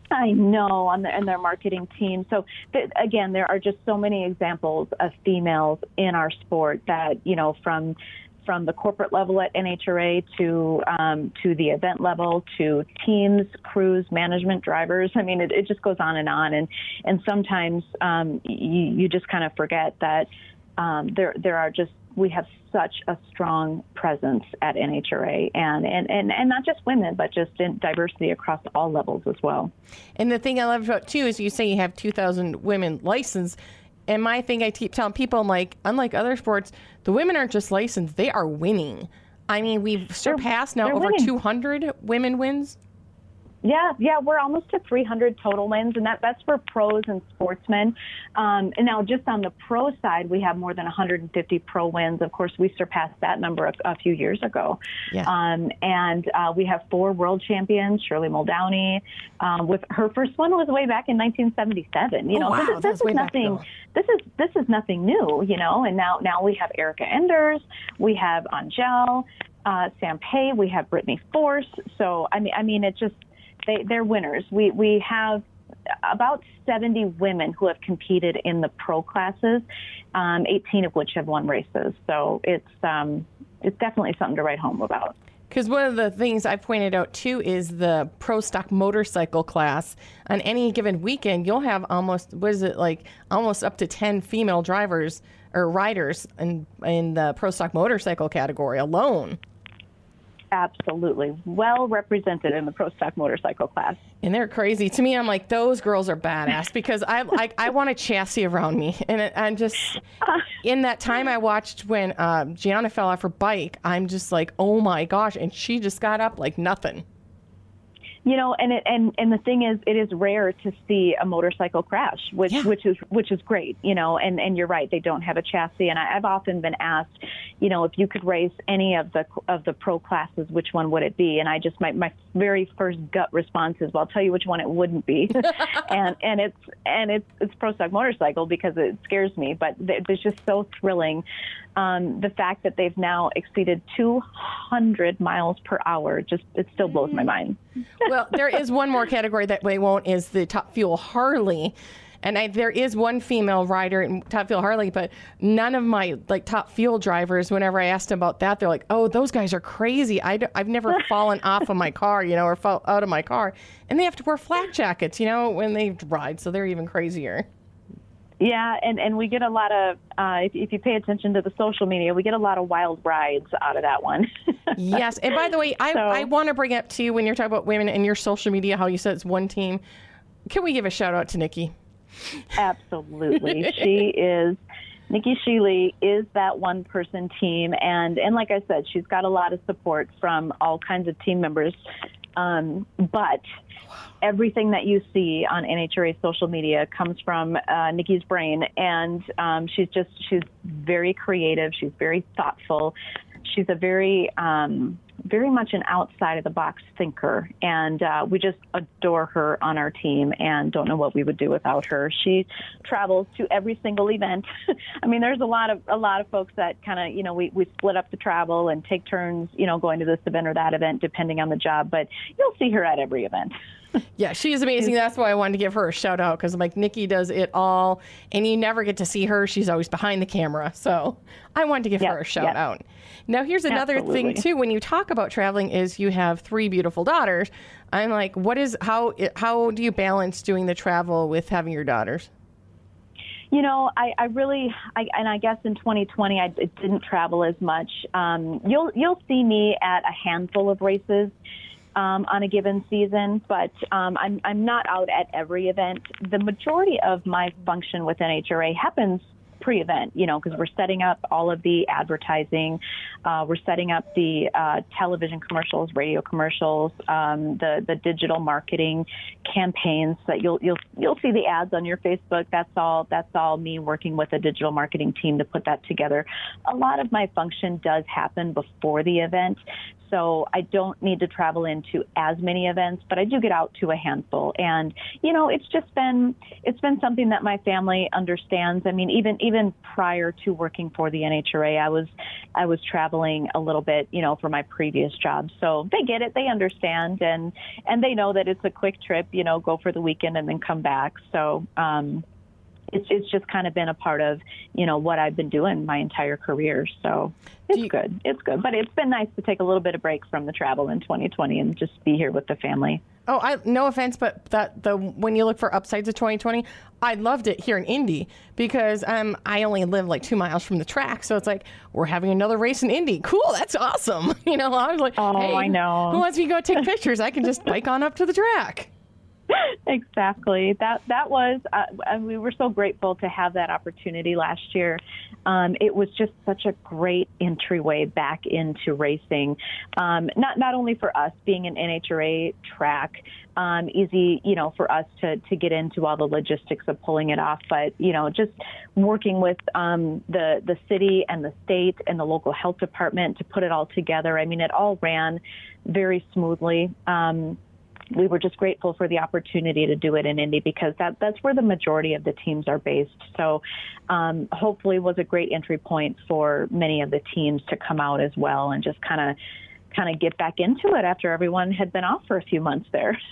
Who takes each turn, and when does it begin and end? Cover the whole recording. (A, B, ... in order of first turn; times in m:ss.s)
0:00.1-0:29.7 A
0:30.2-0:33.6 B
0:34.1-0:42.8 B
0:40.3-0:41.3 A
0:43.6-1:25.2 A
1:02.3-1:03.6 B
1:25.5-1:39.4 B
1:40.5-1:44.0 A
1:44.2-1:50.0 B
1:50.6-1:57.0 B
1:58.2-2:21.2 A
2:21.8-2:27.6 A
2:28.0-2:47.5 B
2:48.4-2:54.3 A
2:54.8-2:59.8 B
2:55.9-2:56.3 A
3:00.5-3:01.7 B
3:02.6-3:11.8 A
3:12.4-3:13.4 A
3:14.2-3:34.5 A
3:35.0-3:43.5 A
3:44.2-4:02.3 B
3:52.0-3:52.6 A
3:53.7-3:54.4 A
4:03.5-4:11.3 A
4:12.0-5:02.2 A
5:02.9-5:13.0 A
5:13.3-5:28.9 B
5:25.2-5:26.2 A
5:29.5-5:57.6 A
5:58.1-6:09.4 A
6:09.9-6:13.2 A